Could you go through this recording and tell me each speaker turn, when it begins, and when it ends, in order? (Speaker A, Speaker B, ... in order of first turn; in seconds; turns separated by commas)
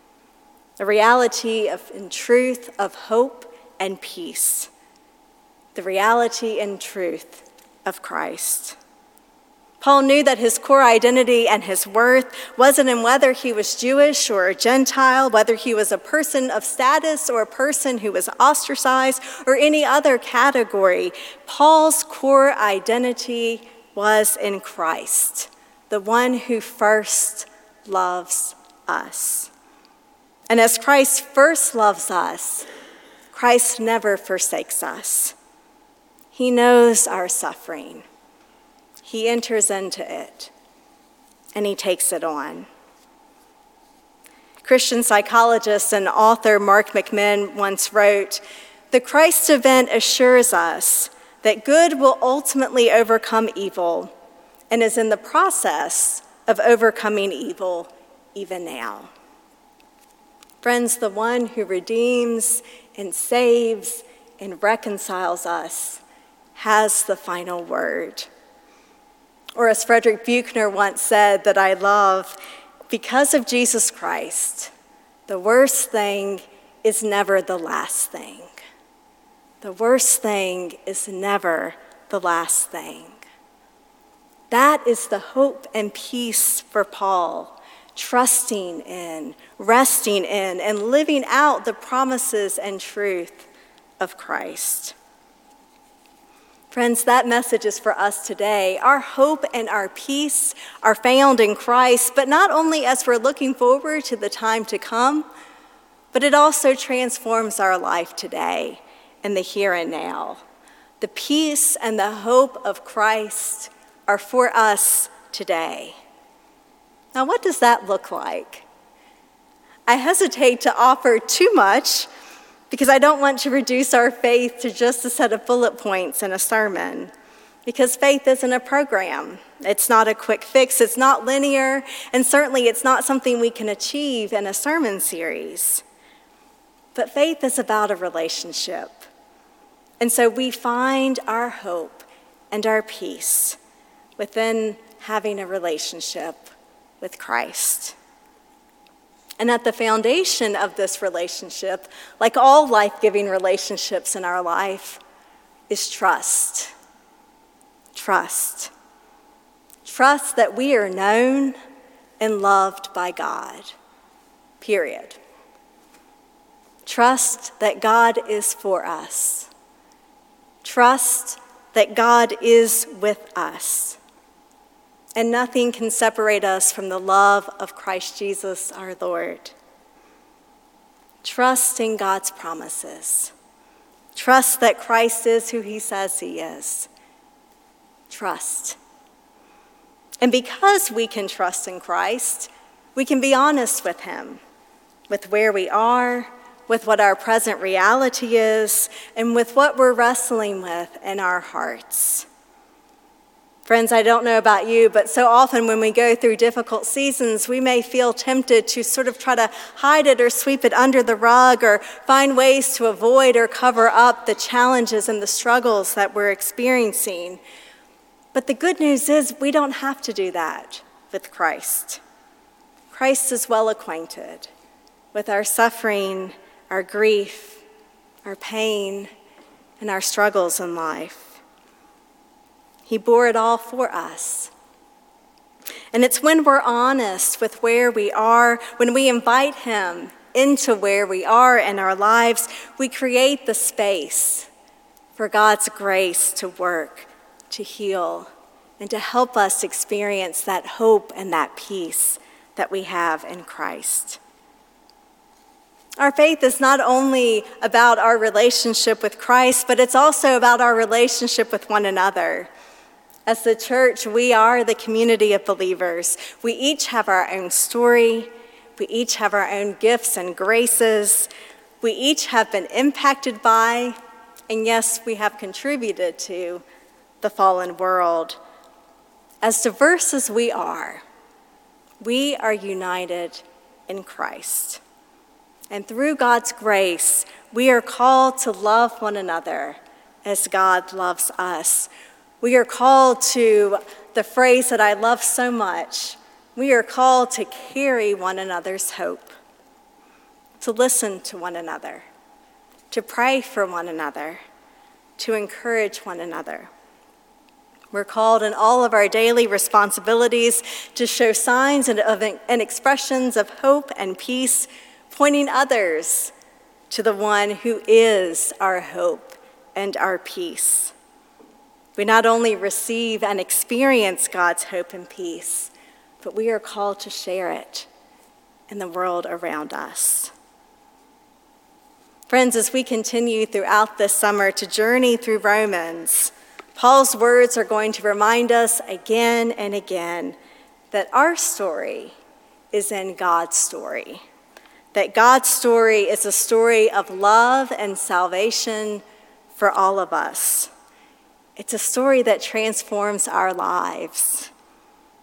Speaker A: 0.8-4.7, Speaker A: 5.7-8.8, Speaker A: 9.8-29.5, Speaker A: 30.5-32.7, Speaker A: 33.3-35.4, Speaker A: 36.3-38.1, Speaker A: 39.0-40.5, Speaker A: 41.5-42.7, Speaker A: 44.6-54.1, Speaker A: 54.7-59.1, Speaker A: 60.6-66.0, Speaker A: 66.5-68.3, Speaker A: 69.6-72.4, Speaker A: 72.9-74.7, Speaker A: 75.3-78.6, Speaker A: 79.6-83.2, Speaker A: 84.5-93.5, Speaker A: 94.0-95.0, Speaker A: 96.7-105.3, Speaker A: 106.1-110.4, Speaker A: 111.0-116.0, Speaker A: 117.2-118.7, Speaker A: 119.9-122.1, Speaker A: 122.7-127.1, Speaker A: 127.7-135.8, Speaker A: 136.9-139.1, Speaker A: 140.0-143.6, Speaker A: 144.2-147.9, Speaker A: 149.4-155.0, Speaker A: 155.7-156.7, Speaker A: 157.9-158.7, Speaker A: 159.8-161.6, Speaker A: 162.2-163.7, Speaker A: 164.6-165.2, Speaker A: 166.8-169.5, Speaker A: 170.6-174.0, Speaker A: 175.2-179.6, Speaker A: 181.2-183.3, Speaker A: 184.2-186.9, Speaker A: 188.1-188.8, Speaker A: 190.2-194.4, Speaker A: 195.1-202.3, Speaker A: 203.7-217.4, Speaker A: 218.3-222.0, Speaker A: 222.9-224.5, Speaker A: 225.1-227.6, Speaker A: 228.2-229.1, Speaker A: 229.8-231.4, Speaker A: 232.9-234.5, Speaker A: 235.9-244.5, Speaker A: 245.2-254.2, Speaker A: 256.0-262.5, Speaker A: 263.3-271.3, Speaker A: 271.8-274.0, Speaker A: 274.5-276.6, Speaker A: 277.2-278.4, Speaker A: 279.4-281.0, Speaker A: 282.0-284.8, Speaker A: 285.7-291.9, Speaker A: 292.4-299.4, Speaker A: 300.6-302.1, Speaker A: 302.9-304.4, Speaker A: 305.2-306.7, Speaker A: 307.9-316.3, Speaker A: 316.9-320.9, Speaker A: 322.0-327.9, Speaker A: 328.7-330.3, Speaker A: 332.3-340.4, Speaker A: 340.9-342.1, Speaker A: 342.7-344.2, Speaker A: 344.9-349.0, Speaker A: 349.6-350.7, Speaker A: 351.6-354.5